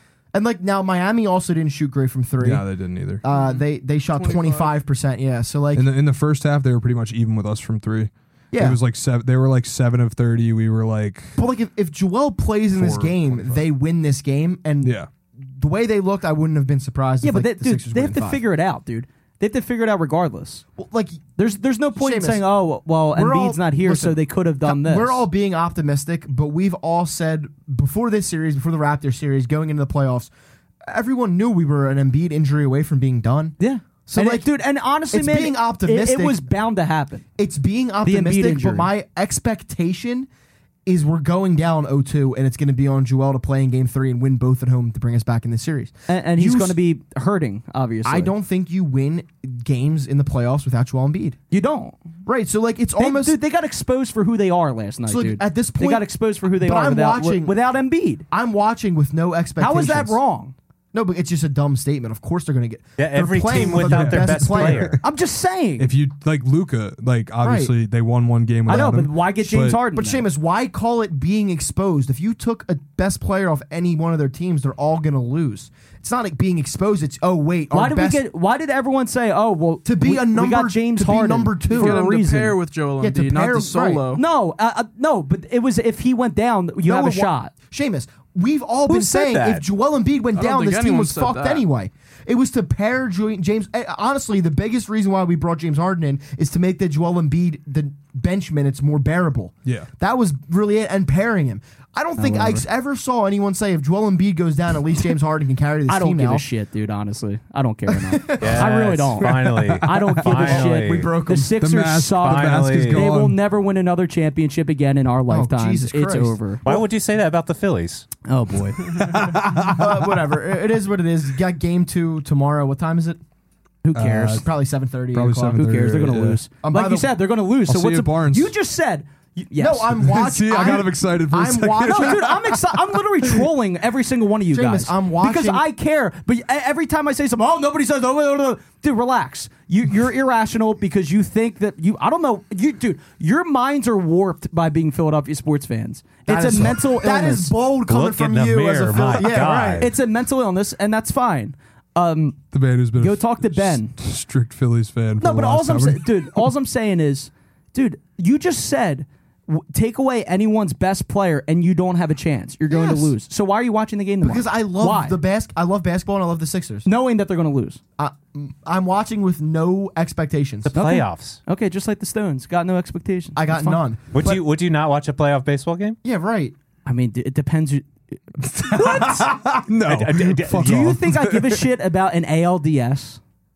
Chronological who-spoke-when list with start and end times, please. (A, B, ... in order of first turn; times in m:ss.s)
0:00.3-0:02.7 A
0:02.4-0:03.2 B
0:03.2-0:05.9 A
0:03.3-0:04.8 C
0:05.7-0:11.4 B
0:08.5-0:08.8 A
0:11.4-0:18.4 A
0:12.7-0:13.7 B
0:14.8-0:15.1 B
0:17.2-0:20.6 D
0:20.8-0:21.2 A
0:21.4-0:25.2 D
0:22.0-0:22.4 A
0:23.1-0:30.3 A
0:30.9-0:34.5 A
0:33.6-0:37.3 D
0:35.1-0:36.4 A
0:37.4-0:40.3 A
0:38.0-0:38.9 D
0:40.9-0:46.8 A
0:46.1-0:48.3 D
0:48.0-0:51.4 A
0:51.5-0:52.0 D
0:52.3-0:53.4 A
0:53.0-0:58.2 D
0:55.1-0:57.6 A
0:58.3-1:00.2 A
0:59.6-1:00.5 D
1:00.9-1:05.0 A
1:03.0-1:05.0 E
1:03.7-1:05.0 B
1:05.0-1:05.9 D
1:05.8-1:09.8 B
1:07.4-1:07.7 A
1:08.7-1:10.3 D
1:09.9-1:18.2 A
1:17.7-1:22.6 D
1:19.8-1:22.0 A
1:21.7-1:24.2 C
1:23.0-1:24.0 A
1:24.1-1:27.5 D
1:26.9-1:46.4 A
1:28.9-1:29.6 E
1:30.4-1:31.6 C
1:42.2-1:42.6 D
1:45.9-1:56.7 D
1:47.9-1:48.8 A
1:48.4-1:51.1 E
1:49.8-1:50.2 B
1:50.3-1:51.6 A
1:51.4-1:53.4 B
1:52.2-1:53.0 E
1:55.3-1:56.8 A
1:56.6-1:58.1 E
1:58.3-1:59.2 D
1:59.0-2:00.2 B
1:59.5-2:03.2 A
2:03.8-2:04.5 D
2:03.9-2:04.5 B
2:04.2-2:05.6 A
2:05.1-2:06.4 B
2:05.5-2:10.0 D
2:06.6-2:07.1 A
2:07.7-2:08.5 B
2:09.6-2:12.3 A
2:10.0-2:13.0 B
2:11.8-2:27.5 D
2:14.5-2:15.6 A
2:26.3-2:29.9 A
2:27.9-2:29.9 E
2:29.1-2:32.4 D
2:32.5-2:36.5 B
2:33.0-2:33.9 D
2:35.2-2:45.2 D
2:42.7-2:43.1 A
2:44.2-2:46.9 A
2:46.9-2:47.8 D
2:48.0-2:50.7 A
2:50.6-2:51.4 E
2:50.7-2:53.8 D
2:53.4-2:54.4 A
2:54.1-2:56.0 E
2:56.0-2:56.5 A
2:56.8-2:57.9 D
2:58.4-3:01.6 B
2:58.6-2:59.0 D
2:58.9-2:59.3 E
2:59.8-3:01.0 E
3:00.6-3:03.2 D